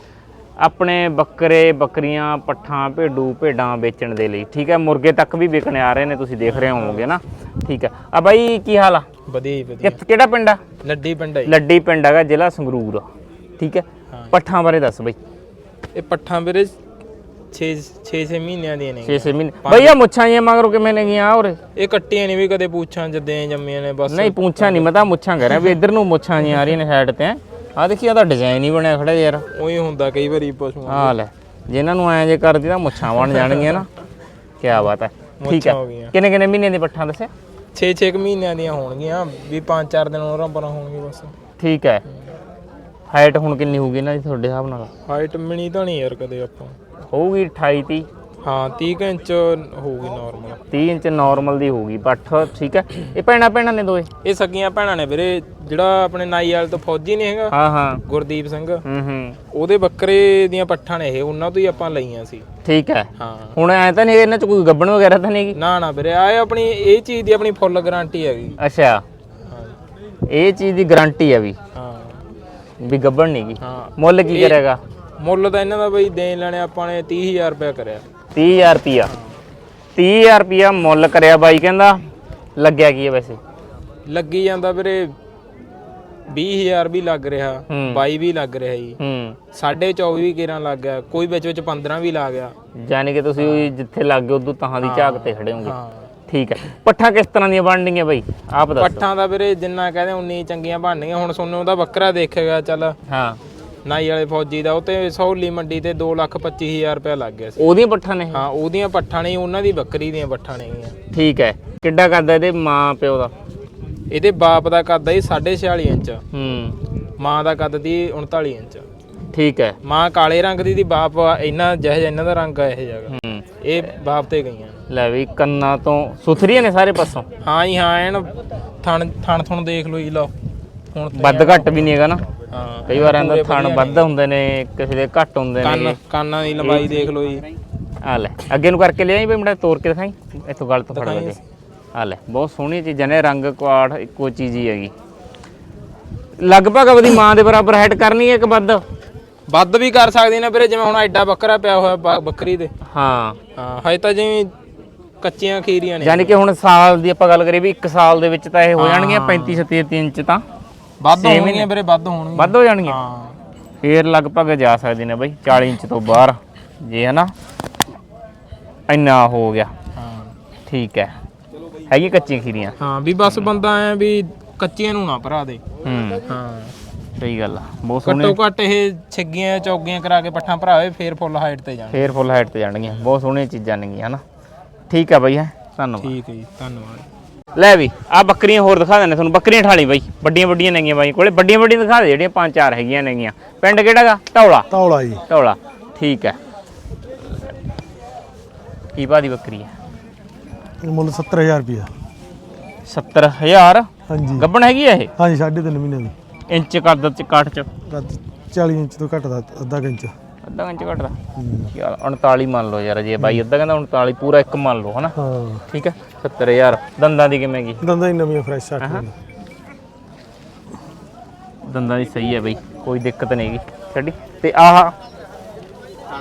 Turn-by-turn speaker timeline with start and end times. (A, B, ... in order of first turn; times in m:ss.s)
0:00.6-0:09.0 A
0:06.4-0:07.0 B
0:09.3-0:10.0 B
0:09.8-0:10.6 A
0:10.8-0:11.5 B
0:11.4-0:13.0 A
0:13.6-0:15.2 A
0:15.9-0:16.7 B
0:17.5-0:20.0 B
0:19.0-0:21.6 A
0:21.7-0:24.9 B
0:24.1-0:29.4 A
0:29.5-0:31.2 B
0:30.9-0:33.9 A
0:34.6-0:37.3 A
0:35.4-0:36.1 B
0:37.7-0:41.3 B
0:41.6-0:42.0 A
0:43.1-0:44.9 A
0:45.0-0:46.7 B
0:47.1-0:48.0 A
0:48.4-0:50.6 B
0:50.7-0:54.1 A
0:54.2-0:58.8 B
0:57.5-0:58.0 A
0:58.8-0:59.4 A
0:59.5-1:02.4 B
1:02.6-1:05.6 A
1:03.2-1:03.6 B
1:05.5-1:08.6 B
1:08.6-1:09.0 A
1:09.4-1:09.8 B
1:10.3-1:11.6 A
1:11.7-1:12.2 B
1:12.8-1:14.8 A
1:13.6-1:14.6 B
1:15.2-1:18.0 B
1:18.3-1:19.1 A
1:20.0-1:22.0 A
1:22.6-1:23.4 A
1:24.1-1:25.1 B
1:26.3-1:29.0 B
1:27.7-1:28.0 A
1:29.0-1:29.4 A
1:29.5-1:32.5 B
1:32.7-1:35.8 A
1:33.4-1:33.7 B
1:34.8-1:36.0 B
1:36.3-1:39.0 A
1:38.8-1:43.0 B
1:43.1-1:43.4 A
1:43.8-1:47.6 B
1:47.6-1:48.4 A
1:48.3-1:51.0 B
1:51.1-1:53.3 A
1:54.1-1:56.2 B
1:56.3-1:56.8 A
1:57.2-1:58.8 B
1:59.3-1:59.8 A
1:59.8-2:04.8 B
2:03.1-2:03.5 A
2:04.9-2:07.2 A
2:07.4-2:10.3 B
2:10.9-2:11.8 B
2:11.1-2:12.3 A
2:12.5-2:14.0 B
2:12.9-2:16.0 A
2:15.6-2:17.5 B
2:16.6-2:17.1 A
2:18.0-2:21.4 A
2:20.9-2:21.4 B
2:21.9-2:24.9 A
2:26.4-2:28.8 A
2:29.5-2:32.7 B
2:32.8-2:33.4 A
2:33.6-2:34.5 B
2:35.2-2:36.4 B
2:36.0-2:40.4 A
2:38.8-2:39.6 B
2:41.0-2:43.4 B
2:41.1-2:41.7 A
2:42.3-2:43.0 A
2:43.8-2:47.3 A
2:48.9-2:49.7 A
2:49.9-2:50.3 B
2:50.7-2:51.1 A
2:51.9-2:52.7 A
2:52.8-2:55.6 B
2:55.8-2:56.2 A
2:56.3-2:56.7 B
2:57.2-2:58.4 A
2:58.0-3:02.2 B
3:01.9-3:04.2 A
3:04.9-3:06.2 A
3:06.0-3:07.0 B
3:07.5-3:14.7 A
3:14.7-3:15.2 C
3:15.3-3:16.4 A
3:18.9-3:19.7 A
3:20.8-3:21.9 C
3:22.9-3:25.1 A
3:24.1-3:24.5 C
3:25.2-3:26.1 C
3:26.5-3:27.7 A
3:27.8-3:30.1 C
3:30.4-3:31.2 A
3:31.4-3:31.7 C
3:31.7-3:35.1 A
3:35.2-3:35.6 C
3:35.7-3:37.8 A
3:37.8-3:39.1 C
3:41.6-3:44.9 A